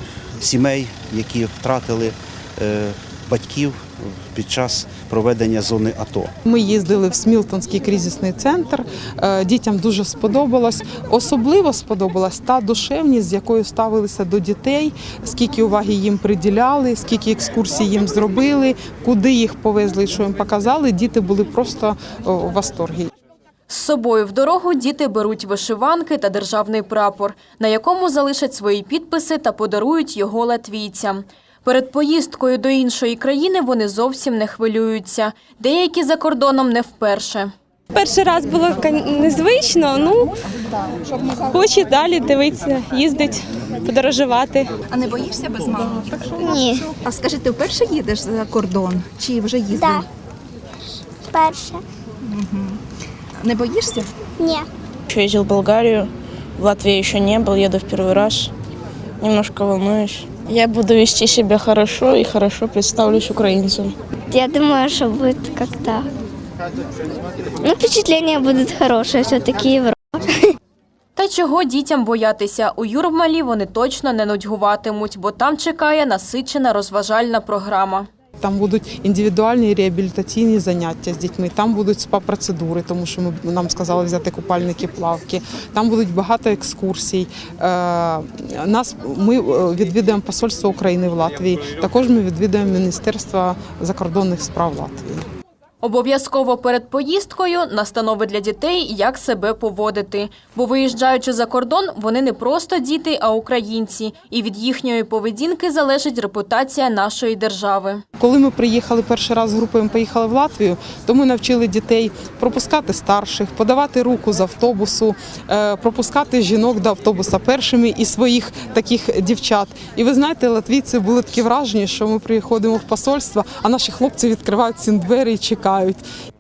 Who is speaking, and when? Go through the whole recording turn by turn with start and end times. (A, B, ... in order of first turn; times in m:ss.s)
0:00.4-0:06.3 A
0:06.4-0:23.1 B
0:23.7-0:37.5 C
0:37.9-0:40.3 D
0:41.5-0:44.7 D
0:44.9-0:50.1 E
0:46.4-0:46.8 F
0:49.7-0:50.0 F
0:51.3-0:51.8 F
0:52.2-0:52.8 E
0:53.4-0:54.1 E
0:54.4-0:54.7 F
0:55.1-0:58.5 G
0:59.2-1:04.0 G
1:04.3-1:06.1 F
1:07.6-1:10.5 F
1:11.2-1:18.1 C
1:18.4-1:35.2 B
1:35.8-1:48.0 C
1:48.2-2:06.0 B